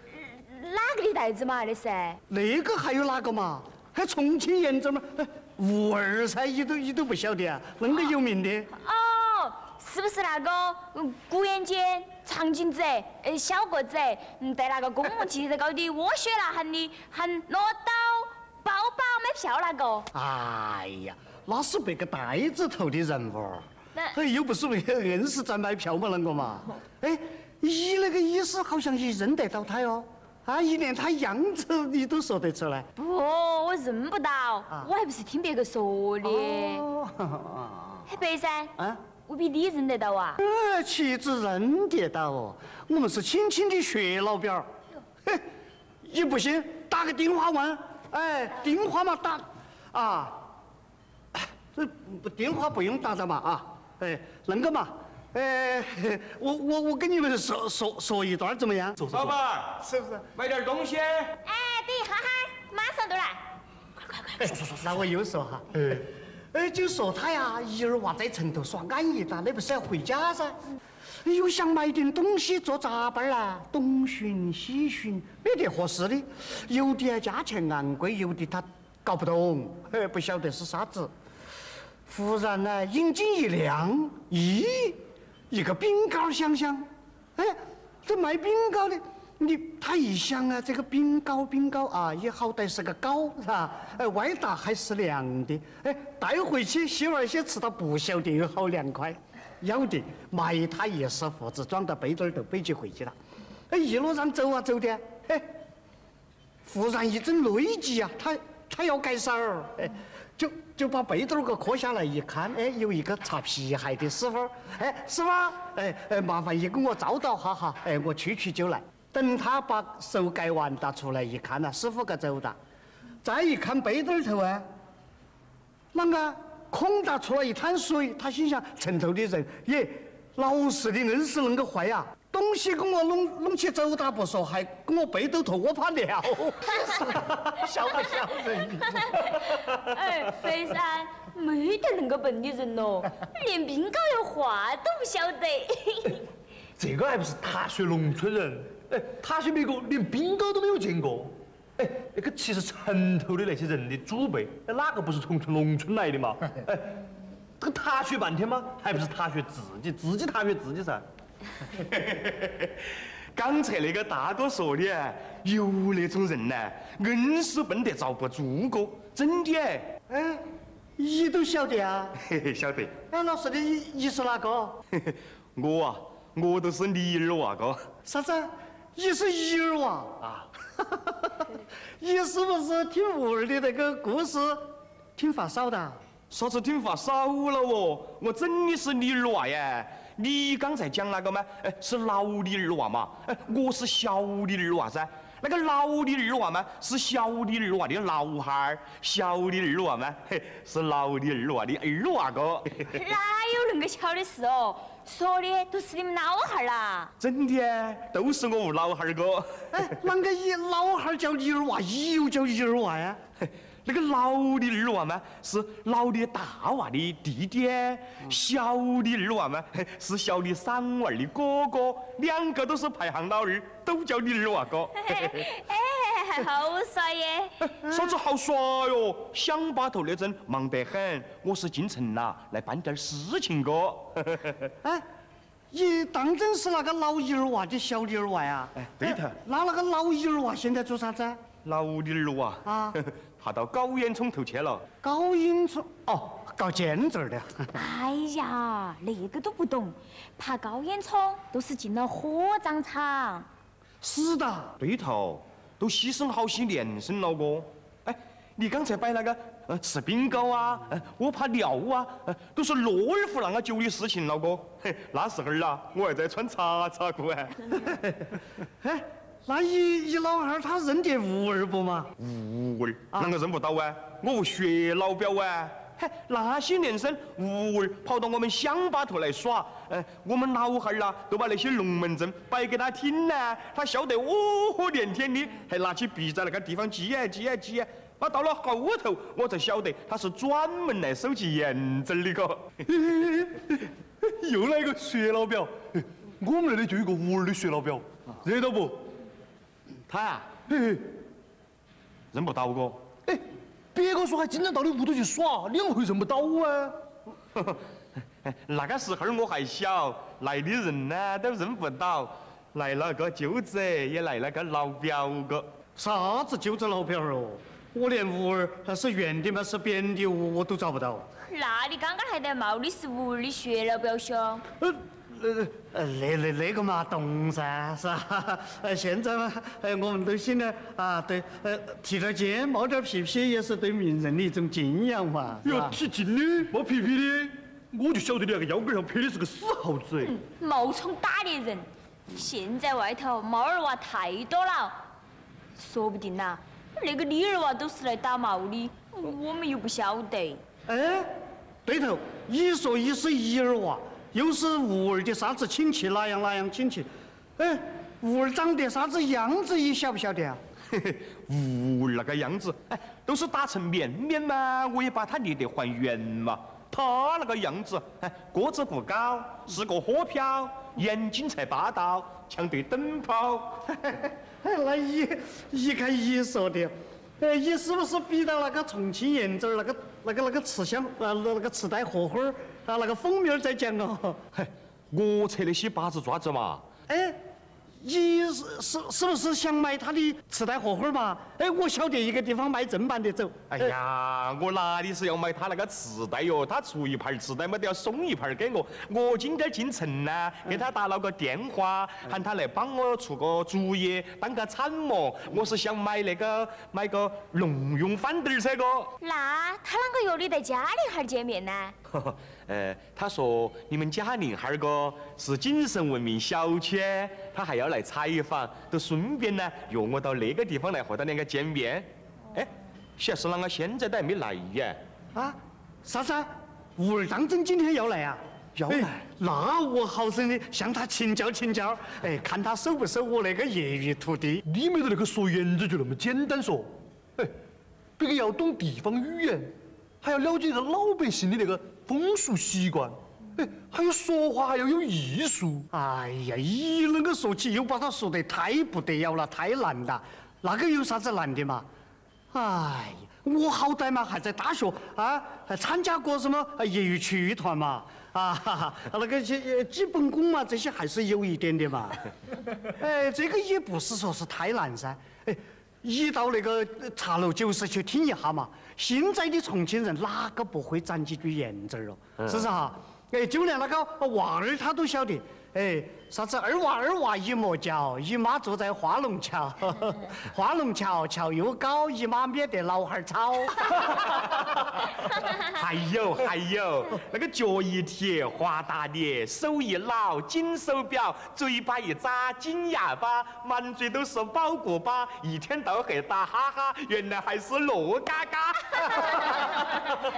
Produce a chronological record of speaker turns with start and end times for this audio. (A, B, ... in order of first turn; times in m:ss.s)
0:00.1-0:02.2 A
0:02.3-0:08.7 B
0:08.7-0:20.1 A
0:20.1-0:32.9 B
0:33.0-0:36.9 A
0:36.2-0:38.1 B
0:38.1-0:38.7 A
0:39.3-0:40.4 A
0:40.4-0:44.7 B
0:46.0-0:50.5 B
0:51.3-0:59.0 B
0:59.1-0:59.8 C
0:59.8-1:00.2 B
1:00.3-1:01.4 C
1:01.4-1:03.4 A
1:04.1-1:04.5 A
1:04.4-1:10.6 B
1:04.5-1:04.9 D
1:05.8-1:06.0 D
1:11.2-1:21.1 B
1:22.1-1:43.2 B
1:43.7-1:45.5 B
1:46.6-2:02.6 B
2:03.2-2:04.7 B
2:05.9-2:19.5 B
2:18.8-2:26.2 A
2:26.8-2:37.0 D
2:37.6-2:41.0 D
2:41.7-2:50.0 C
2:50.1-2:50.4 B
2:51.0-2:52.2 B
2:52.2-2:53.0 C
2:53.1-2:54.8 B
2:54.9-2:57.9 C
2:58.0-3:06.0 B
3:06.3-3:23.0 C
3:22.9-3:27.1 A
3:27.2-3:29.9 C
3:29.7-3:33.2 B
3:33.4-3:45.5 C
3:45.0-3:47.5 A
3:47.6-3:54.7 C
3:47.9-3:48.1 B
3:55.7-4:01.4 B
3:58.8-3:59.4 C
4:01.6-4:04.8 C
4:02.6-4:03.0 B
4:05.0-4:07.8 B
4:07.7-4:13.5 A
4:14.0-4:14.7 B
4:14.8-4:27.9 C
4:27.8-4:28.3 B
4:28.8-4:32.1 B
4:32.2-4:52.8 C
4:52.9-4:59.1 D
5:00.1-5:00.5 C
5:00.7-5:01.1 D
5:02.3-5:03.0 C
5:03.2-5:07.0 D
5:07.6-5:07.8 C
5:08.4-5:15.7 C
5:16.0-5:21.2 B
5:21.5-5:24.6 A
5:24.8-5:36.0 B
5:35.6-5:40.3 D
5:40.2-5:45.0 A
5:45.8-5:50.6 A
5:50.9-5:51.3 B
5:51.8-6:00.6 B
6:00.9-6:13.9 C
6:13.9-6:24.4 B
6:24.5-6:26.8 C
6:27.1-6:27.4 B
6:28.0-6:33.9 B
6:33.7-6:49.1 C
6:49.2-6:51.9 A
6:52.1-7:05.0 C
7:05.3-7:14.6 B
7:08.8-7:09.2 C
7:14.6-7:17.5 D
7:18.2-7:25.9 D
7:25.9-7:31.9 B
7:32.5-7:42.3 B
7:42.8-8:04.2 B
7:52.4-7:52.6 C
8:03.9-8:20.1 C